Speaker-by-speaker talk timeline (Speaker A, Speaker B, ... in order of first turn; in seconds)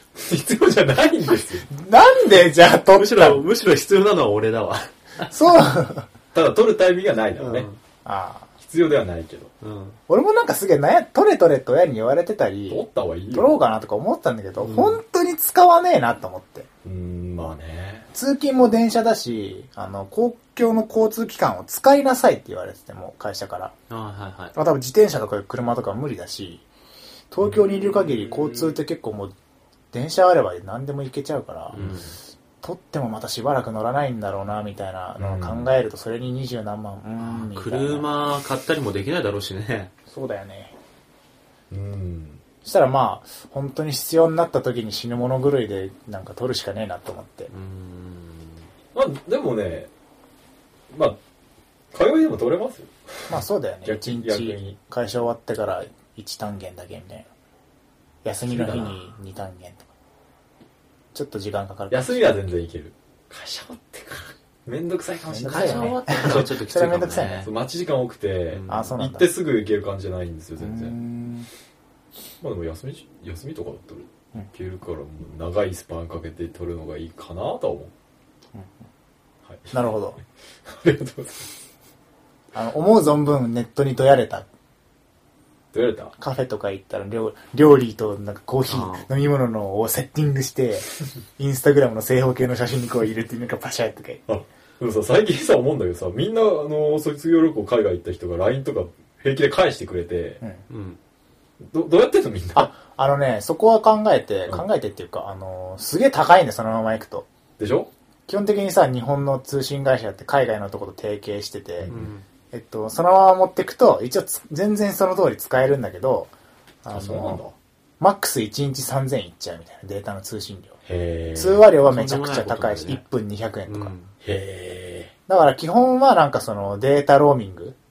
Speaker A: 0.1-1.7, 6.3-7.7, 8.6-9.5, 12.7-13.6, 16.8-18.1, 27.4-28.8, 31.8-32.2, 35.2-35.7, 41.7-42.4, 49.0-49.9, 50.9-51.2, 51.9-54.8, 58.5-59.0, 61.9-66.5, 67.4-71.0, 72.4-77.9, 79.5-79.9, 80.7-81.5, 85.7-86.2, 94.3-100.4, 101.6-102.7, 107.6-107.9, 111.8-112.1, 116.9-117.6, 120.8-121.7, 124.2-125.1
Speaker B: 1.7-3.4, 5.3-6.1, 8.1-8.5, 10.1-16.7, 18.1-23.7, 24.6-26.6, 27.3-29.3, 29.9-31.8, 32.6-38.1, 40.1-40.7, 42.6-47.5, 53.3-57.3, 58.2-59.9, 61.1-62.2, 65.3-67.4, 68.7-69.3, 70.6-71.5, 79.7-80.2, 82.5-84.5, 86.2-94.2, 102.5-107.3, 108.3-111.9, 112.5-116.3, 116.8-117.4, 118.0-120.8, 121.4-123.9, 125.3-127.8
Speaker C: 2.9-5.3, 7.4-7.8, 9.6-10.0, 14.6-15.0, 23.9-24.6, 31.7-32.1, 37.2-39.9, 47.5-48.7, 65.5-67.5, 68.5-69.0, 88.7-89.1, 100.7-101.0, 111.9-112.2, 121.8-123.0, 123.7-124.1